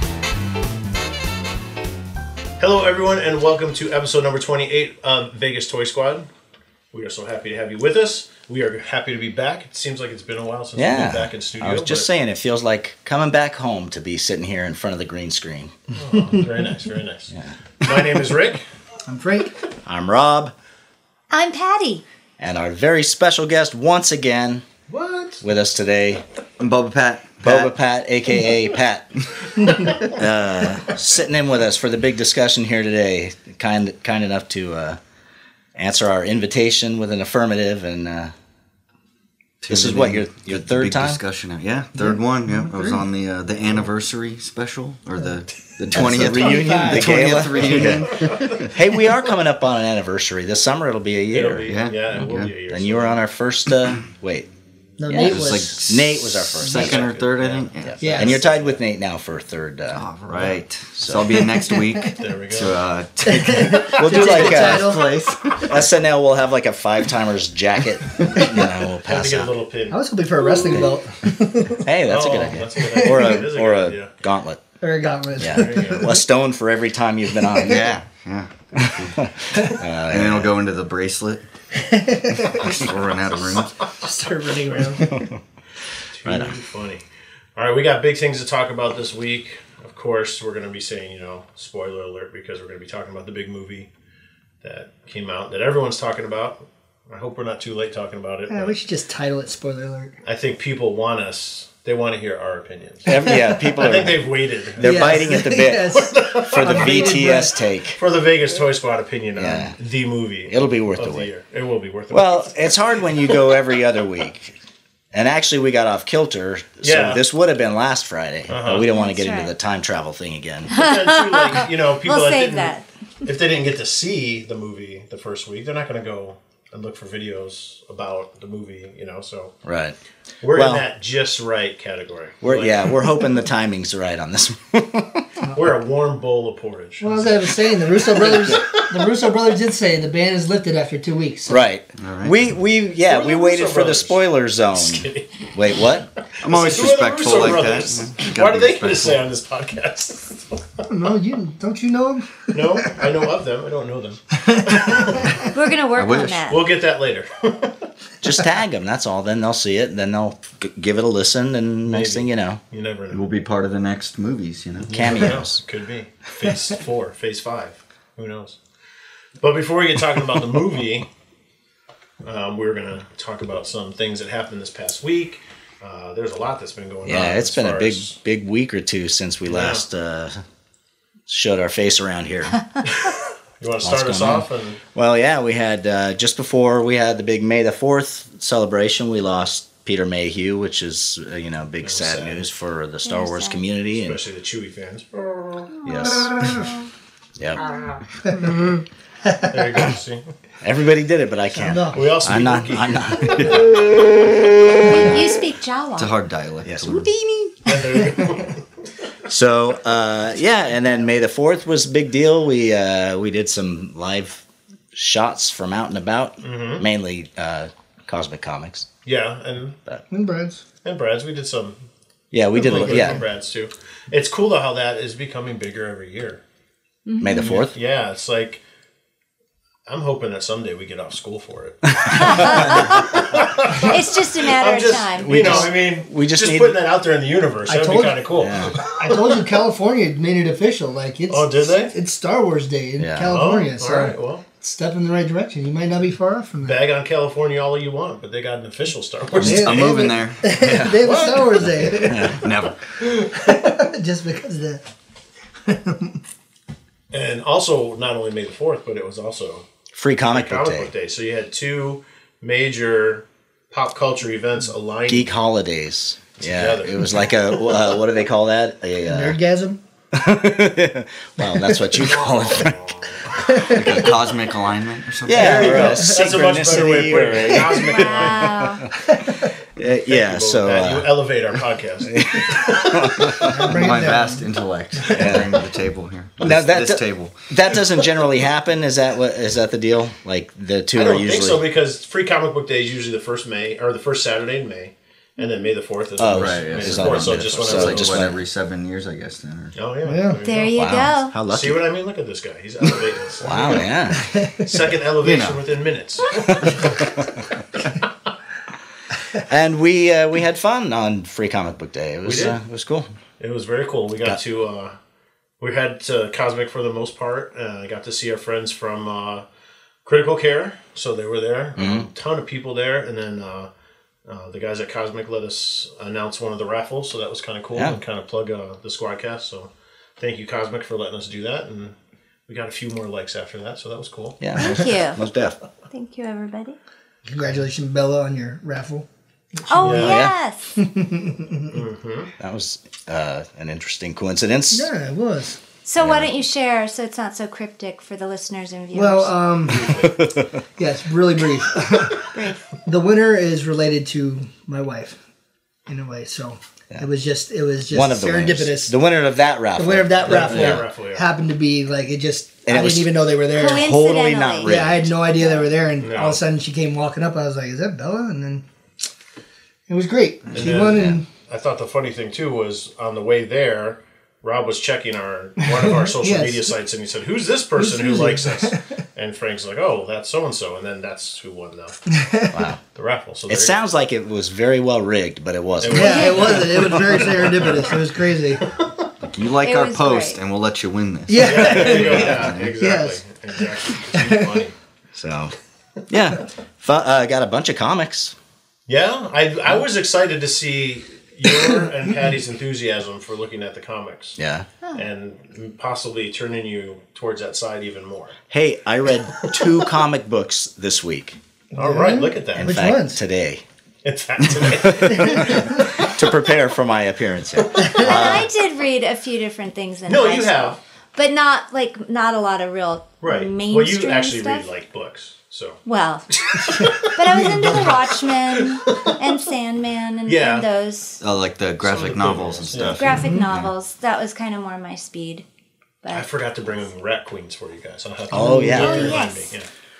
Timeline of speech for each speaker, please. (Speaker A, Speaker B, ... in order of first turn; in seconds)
Speaker A: 2.6-6.3, 6.9-12.1, 15.9-18.6, 24.9-25.4, 48.1-48.5, 51.3-53.2, 56.7-58.8, 62.1-62.8, 69.1-70.0, 72.1-74.1, 75.5-76.2, 86.1-87.0, 87.5-93.9, 94.6-98.7, 100.2-107.4, 108.0-113.6, 116.8-117.2, 118.5-118.9, 120.7-129.5, 130.4-133.0, 135.5-139.0, 143.0-144.2, 144.7-145.8, 146.4-150.9, 152.5-155.3, 156.5-157.8, 161.9-163.3, 164.9-168.6, 169.4-171.1, 172.2-178.2, 179.5-179.8, 182.8-184.8, 191.8-192.4, 193.9-195.7, 199.5-200.2, 201.9-204.2, 207.7-208.6, 216.4-216.8, 219.0-219.8, 220.8-221.7, 222.5-226.4, 227.4-228.6, 229.9-239.3, 241.3-241.9, 243.2-244.4, 246.6-250.0, 251.0-251.6, 257.1-259.7, 260.2-265.3, 266.4-267.4, 272.0-273.3, 273.8-274.1, 275.3-278.6, 280.1-283.5, 290.9-298.3, 299.7-300.8, 301.5-303.9, 304.6-307.1, 312.2-312.6, 313.4-314.9, 315.6-319.4, 320.0-323.7, 324.2-331.9, 332.5-334.4, 339.8-340.2, 341.7-342.3, 349.7-350.1, 360.2-361.3, 366.0-366.4, 370.5-382.0, 382.9-383.8, 385.8-388.0, 388.6-388.9, 391.4-394.7, 398.9-404.4, 404.9-408.3, 411.8-412.8, 414.0-416.1, 417.6-418.4, 420.1-420.8, 423.2-425.8, 426.3-429.2, 430.3-430.6, 431.8-433.0, 436.1-439.7
Speaker B: 10.8-15.7, 19.9-20.5, 22.4-24.6, 25.4-26.2, 27.4-35.0, 35.7-38.3, 39.7-41.2, 45.9-51.7, 52.7-54.5, 55.1-57.2, 57.8-60.0, 60.9-61.4, 64.0-65.0, 65.7-69.5, 70.7-71.0, 71.8-74.6, 75.4-77.9, 78.7-80.5, 85.0-85.4, 86.2-86.5, 103.0-108.0, 109.3-109.8, 110.5-111.3, 112.1-114.5, 115.1-120.7, 129.6-129.9, 130.5-130.8, 132.4-135.2, 141.5-146.1, 158.2-162.6, 164.9-165.6, 177.0-180.4, 181.3-182.6, 183.8-194.2, 195.8-196.6, 200.6-203.8, 204.9-205.2, 206.6-207.1, 209.3-218.9, 222.3-223.2, 227.2-227.7, 232.1-232.9, 235.2-236.8, 238.3-238.8, 243.0-243.4, 250.5-251.2, 251.9-252.4, 259.9-260.9, 265.1-269.4, 270.1-272.8, 275.2-278.9, 279.8-281.1, 282.1-283.6, 285.1-285.6, 286.4-291.6, 296.2-298.4, 300.7-301.8, 303.4-304.3, 306.5-306.9, 309.4-313.1, 321.8-322.1, 334.4-335.6, 339.9-340.3, 342.4-344.9, 346.0-346.3, 349.7-350.6, 357.9-360.9, 362.6-365.1, 382.5-382.8, 383.5-387.3, 395.1-395.5, 396.1-398.3, 404.4-404.7, 408.5-411.4, 412.6-413.6, 414.6-418.5, 438.3-439.2
Speaker C: 19.1-19.6, 42.0-43.0, 45.9-48.0, 55.0-55.8, 58.0-58.5, 63.2-65.4, 69.9-71.8, 74.8-76.1, 81.8-82.8, 83.9-85.3, 98.5-100.2, 103.2-103.6, 104.8-107.6, 137.0-141.6, 150.9-153.0, 154.4-155.4, 196.1-196.7, 198.2-199.8, 201.5-202.0, 220.1-220.6, 222.6-223.2, 237.7-238.2, 238.8-246.8, 249.4-252.4, 253.0-254.8, 255.7-256.2, 269.1-269.8, 273.5-273.9, 275.7-276.1, 283.4-284.5, 285.0-285.3, 300.0-300.4, 304.2-304.6, 337.2-339.1, 339.6-340.1, 340.8-341.8, 344.7-345.6, 348.9-350.1, 350.8-352.3, 352.8-355.2, 355.9-358.9, 359.8-363.9, 364.6-368.6, 369.9-371.3, 375.6-376.7, 377.8-378.8, 382.2-382.6, 385.9-388.7, 391.3-393.2, 394.0-394.6, 411.7-413.2, 415.1-415.8, 426.6-427.9, 433.1-433.4, 438.3-438.8
Speaker D: 21.3-22.0, 118.9-119.5, 120.7-122.8, 155.5-156.6, 193.0-193.6, 204.8-206.1, 227.1-227.5, 232.1-233.2, 233.8-235.7, 277.9-278.8, 300.4-301.3, 334.5-335.2, 335.9-336.8, 339.7-340.8, 345.8-349.3, 352.3-352.6, 363.5-364.8, 386.0-386.3, 389.6-390.4, 418.0-424.7, 425.8-426.3, 427.0-431.2, 433.0-435.4, 438.6-439.5
Speaker E: 26.6-27.7, 39.6-48.7, 51.7-52.5, 55.1-58.3, 59.9-65.8, 77.6-79.2, 80.1-81.4, 82.5-83.8, 142.0-142.4, 146.4-149.2, 155.9-156.5, 163.1-165.2, 206.0-207.2, 249.4-250.6, 252.3-252.8, 273.6-275.9, 283.6-287.8, 296.3-299.8, 305.2-305.6, 389.2-392.7, 431.2-433.7